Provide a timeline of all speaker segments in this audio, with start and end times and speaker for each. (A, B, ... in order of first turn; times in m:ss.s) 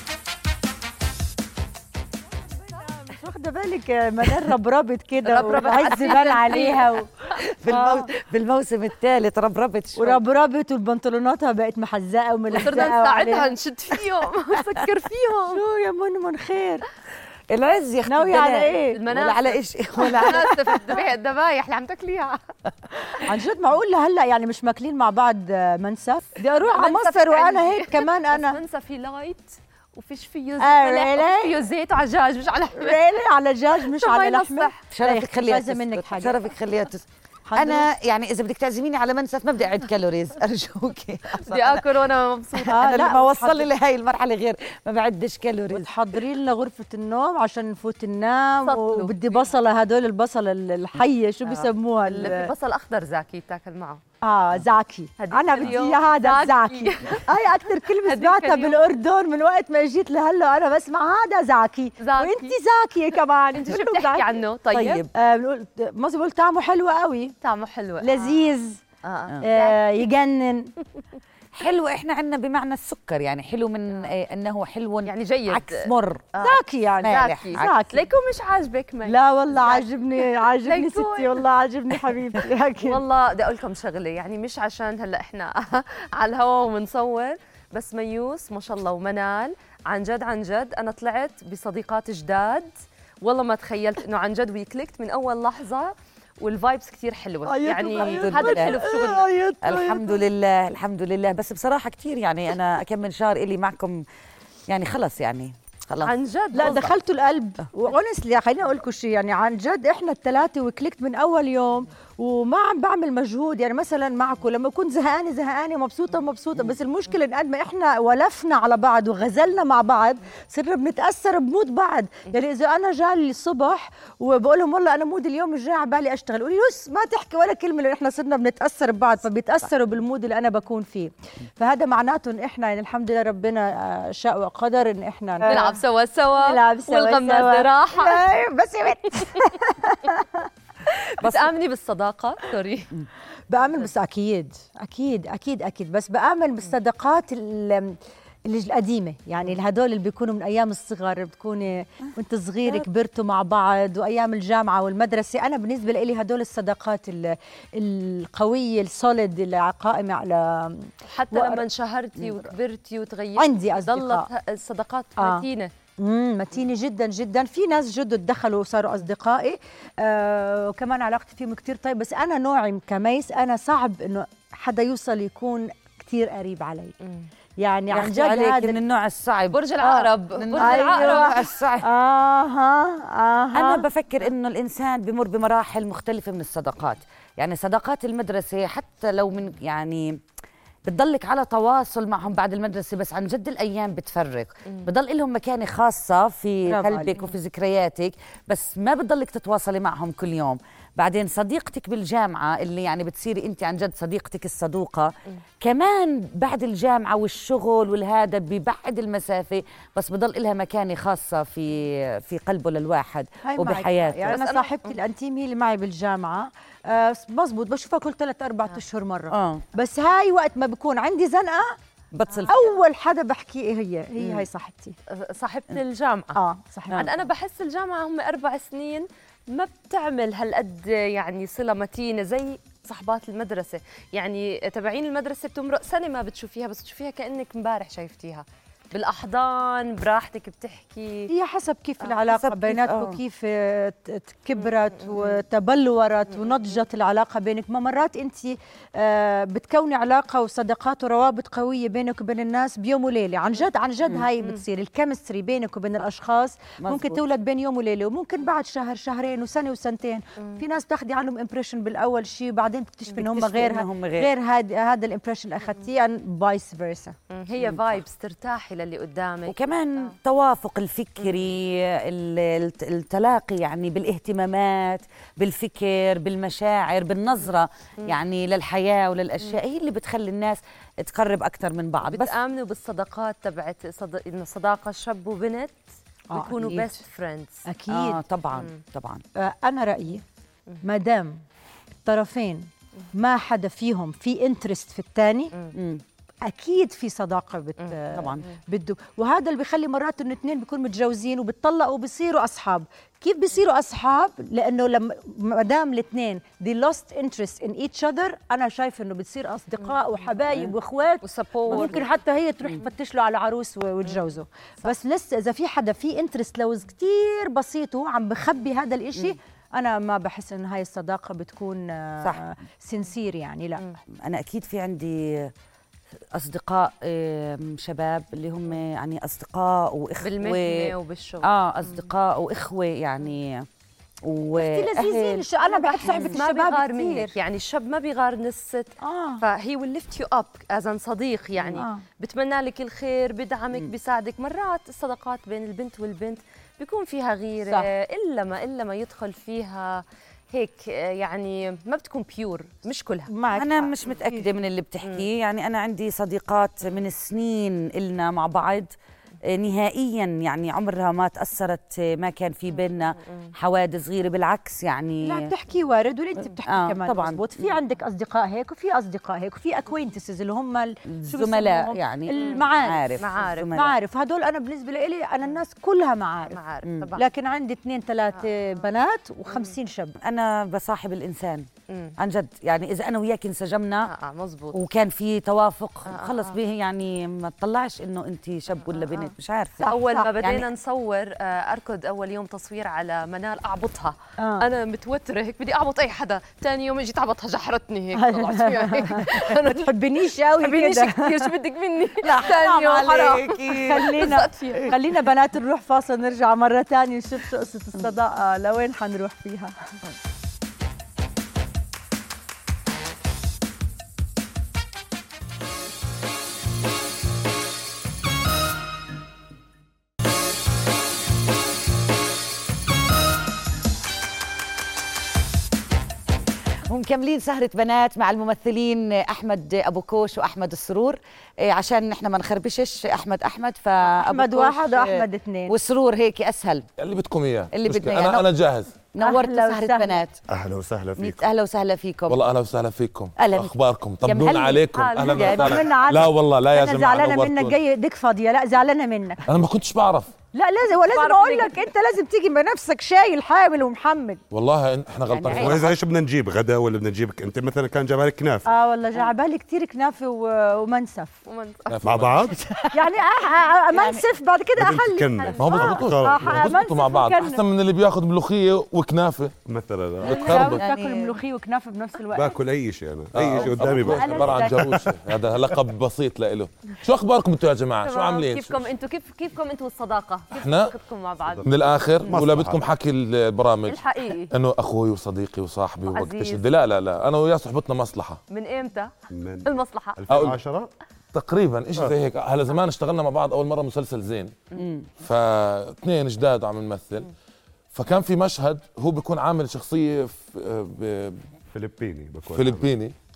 0:02.5-0:07.1 A
0:05.2-0:07.4 B
0:05.6-0:06.8 C
0:07.4-0:10.2 C
0:07.7-0:08.1 A
0:10.0-0:13.5 A
0:12.5-0:15.6 B
0:15.5-0:16.9 A
0:17.5-0:21.0 C
0:18.0-0:19.0 A
0:18.9-0:22.4 B
0:20.0-0:20.3 A
0:23.2-0:28.6 A
0:26.7-0:33.1 B
0:30.6-0:31.6 A
0:32.8-0:36.4 A
0:33.9-0:34.8 B
0:34.9-0:42.0 C
0:37.5-0:37.9 A
0:41.4-0:42.8 B
0:42.6-0:45.8 C
0:42.6-0:43.6 A
0:45.7-0:52.5 A
0:48.6-0:49.4 B
0:51.5-0:54.0 B
0:54.2-1:04.3 A
0:55.2-0:57.3 B
0:58.0-0:58.8 B
1:02.0-1:02.5 B
1:03.5-1:05.1 B
1:04.7-1:05.1 C
1:05.1-1:07.4 A
1:07.4-1:10.0 B
1:08.0-1:08.8 A
1:09.4-1:10.7 A
1:11.5-1:16.2 C
1:15.0-1:21.4 B
1:16.4-1:18.0 A
1:17.0-1:17.7 C
1:19.1-1:23.0 A
1:22.8-1:32.7 B
1:33.2-1:39.3 B
1:37.5-1:40.2 A
1:38.0-1:38.8 C
1:39.6-1:44.0 C
1:44.7-1:46.9 C
1:46.0-1:46.9 B
1:46.5-2:15.7 A
2:15.4-2:18.2 B
2:16.4-2:20.5 A
2:20.9-2:22.9 B
2:21.2-2:21.5 C
2:23.5-2:41.6 A
2:41.1-2:45.7 B
2:43.4-2:44.3 A
2:45.2-2:45.4 A
2:46.0-2:56.9 A
2:57.0-2:57.3 B
2:57.6-2:58.8 A
2:57.9-2:59.7 C
2:59.5-3:01.5 B
2:59.8-3:03.8 A
3:00.3-3:01.9 C
3:03.5-3:10.2 C
3:10.8-3:34.4 C
3:16.7-3:17.1 A
3:33.4-3:41.8 A
3:34.3-3:34.9 B
3:39.3-3:39.6 C
3:42.1-3:42.6 C
3:42.3-3:42.7 B
3:42.5-3:45.0 A
3:44.2-3:44.5 C
3:45.1-3:46.4 B
3:46.3-3:47.1 A
3:46.9-4:01.3 B
4:01.3-4:27.2 A
4:02.3-4:03.2 C
4:16.8-4:17.2 C
4:23.2-4:24.3 C
4:27.3-4:30.1 B
4:29.5-4:42.3 C
4:42.0-4:45.8 B
4:46.3-4:47.0 A
4:46.3-4:47.6 B
4:47.7-4:48.2 A
4:47.9-4:49.2 C
4:49.4-4:50.2 A
4:50.8-4:51.4 A
4:52.0-4:55.5 A
4:55.7-4:56.0 C
4:56.4-5:23.8 A
4:58.1-4:58.4 C
5:11.2-5:12.1 B
5:11.7-5:12.0 C
5:24.1-5:25.5 C
5:26.3-5:33.7 C
5:30.2-5:31.5 B
5:34.2-5:35.5 C
5:34.6-5:37.3 A
5:35.7-5:53.3 B
5:36.0-5:36.4 C
5:39.0-5:39.4 A
5:41.8-5:42.0 A
5:53.3-5:54.4 A
5:53.5-6:05.5 C
6:05.2-6:13.2 A
6:06.6-6:07.5 C
6:11.1-6:14.0 C
6:12.4-6:12.7 B
6:13.2-6:13.8 B
6:13.7-6:16.6 A
6:16.5-6:17.2 B
6:16.8-6:17.1 C
6:17.2-6:20.2 A
6:20.2-6:24.1 C
6:21.9-6:22.2 B
6:24.0-6:24.8 B
6:24.7-6:29.9 C
6:26.1-6:26.6 B
6:28.9-6:29.3 B
6:29.8-6:30.3 A
6:29.8-6:39.9 B
6:30.4-6:30.7 C
6:34.4-6:34.6 A
6:38.2-6:41.5 A
6:40.6-6:44.9 B
6:42.2-6:44.9 C
6:43.7-6:49.7 A
7:06.9-7:16.9 C
7:14.0-7:15.8 A
7:17.0-7:18.9 D
7:17.7-7:18.5 C
7:19.1-7:20.4 C
7:19.2-7:20.1 A
7:20.5-7:21.4 E
7:21.2-7:22.4 C
7:22.3-7:27.8 D
7:23.4-7:25.8 C
7:24.9-7:25.9 B
7:25.5-7:29.4 A
7:29.5-7:30.3 D
7:30.5-7:34.4 A
7:31.0-7:31.8 B
7:34.5-7:35.9 D
7:35.3-7:35.9 C
7:35.5-7:38.7 E
7:38.7-7:41.4 A
7:41.5-7:42.0 B
7:41.9-7:42.6 D
7:42.0-7:42.6 E
7:42.9-7:47.6 A
7:43.9-7:44.2 C
7:44.8-7:46.7 E
7:45.4-7:46.0 B
7:45.6-7:49.5 D
7:49.7-7:50.7 E
7:50.2-7:52.6 A
7:50.3-7:50.8 D
7:50.3-7:51.4 C
7:52.3-7:55.7 E
7:53.3-7:58.9 D
7:54.0-7:54.9 A
7:58.0-8:01.7 B
8:00.5-8:01.0 D
8:01.5-8:02.8 E
8:01.6-8:08.4 D
8:03.9-8:04.5 B
8:06.1-8:06.6 B
8:08.5-8:09.1 B
8:09.3-8:10.9 E
8:09.6-8:10.2 B
8:10.3-8:10.6 D
8:11.3-8:14.6 D
8:14.8-8:15.1 C
8:15.2-8:17.3 D
8:17.9-8:21.4 D
8:21.7-8:22.9 E
8:22.5-8:23.2 D